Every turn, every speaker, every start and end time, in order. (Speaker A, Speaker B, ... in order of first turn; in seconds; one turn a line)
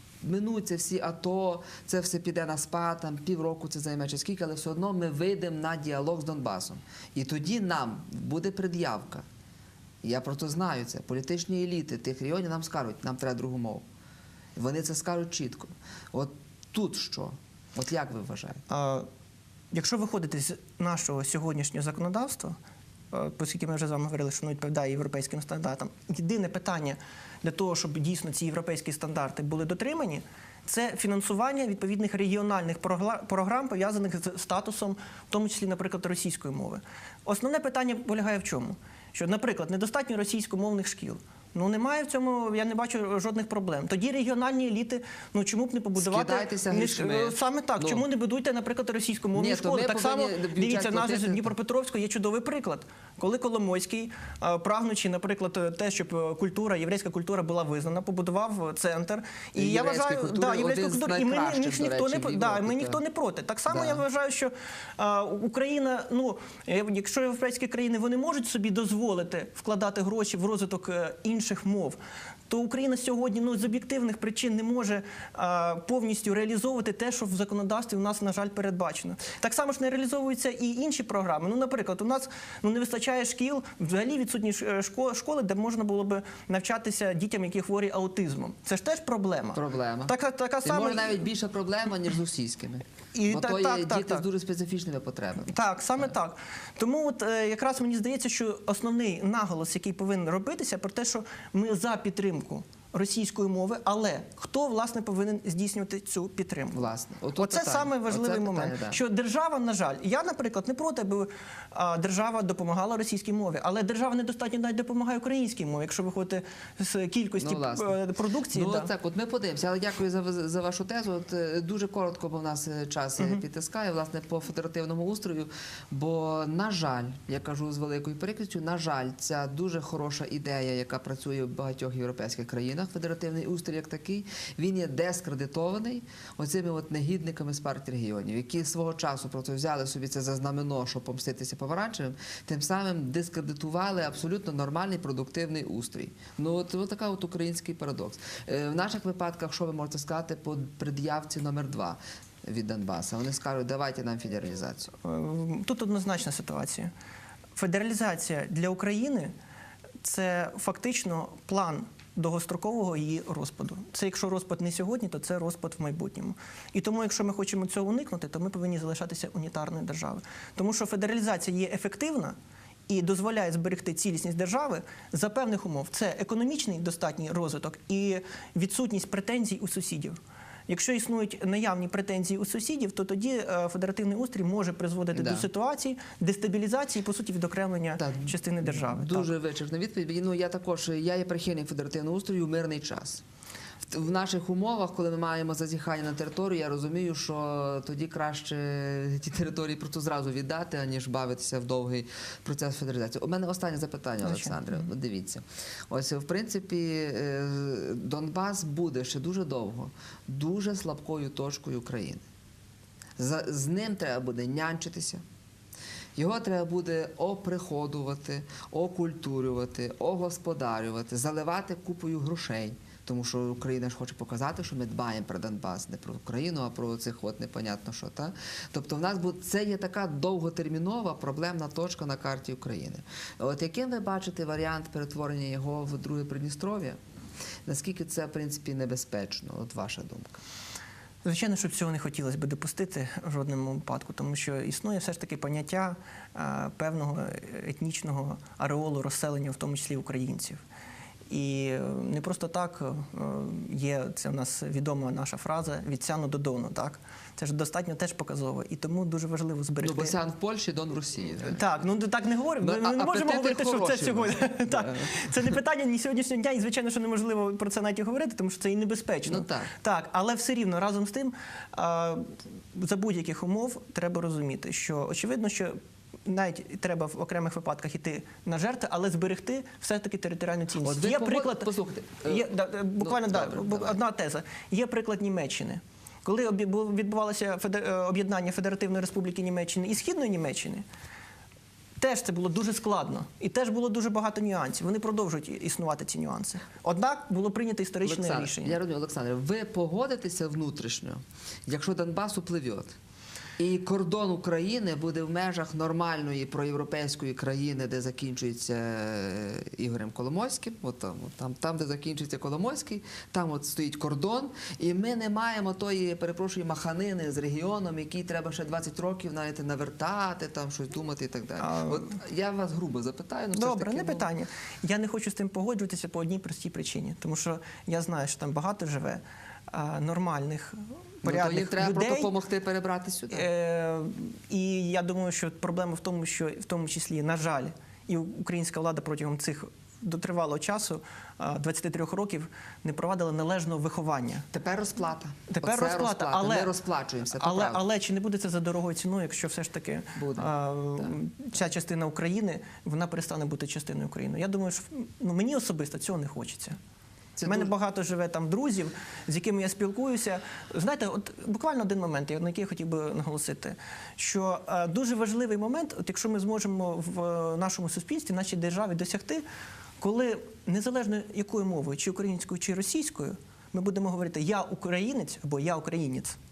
Speaker A: 0.2-9.2
Speaker A: 10.0-13.8
Speaker A: 14.6-18.6
Speaker B: 18.7-19.1
Speaker B: 19.7-22.6
Speaker B: 23.1-72.0
Speaker A: 46.0-48.0
Speaker A: 49.4-51.5
Speaker A: 59.6-63.0
Speaker A: 63.7-64.0
Speaker B: 72.5-91.3
Speaker A: 89.5-95.6
Speaker B: 93.2-94.2
Speaker B: 95.5-106.8
Speaker A: 106.7-109.0
Speaker B: 107.4-118.9
Speaker A: 117.4-118.0
Speaker A: 118.5-154.9
Speaker B: 155.0-156.9
Speaker B: 157.6-159.3
Speaker B: 160.0-172.4
Speaker B: 172.9-189.3
Speaker A: 185.1-185.5
Speaker A: 188.0-193.2
Speaker A: 193.8-212.2
Speaker B: 204.2-204.8
Speaker A: 213.2-215.2
Speaker A: 216.2-237.0
Speaker A: 237.7-240.4
Speaker B: 241.2-250.6
Speaker B: 251.3-260.1
Speaker A: 259.8-261.6
Speaker B: 261.4-281.7
Speaker A: 262.6-265.1
Speaker A: 269.3-269.7
Speaker A: 280.8-282.5
Speaker B: 282.2-290.9
Speaker A: 283.0-284.0
Speaker B: 292.0-298.8
Speaker A: 298.1-302.9
Speaker A: 303.6-324.3
Speaker B: 321.6-322.1
Speaker B: 323.5-332.3
Speaker A: 331.2-333.5
Speaker B: 333.3-344.5
Speaker A: 344.5-347.8
Speaker B: 345.5-346.7
Speaker B: 347.4-356.8
Speaker A: 350.2-351.1
Speaker A: 357.4-357.7
Speaker B: 357.4-369.4
Speaker B: 370.0-376.4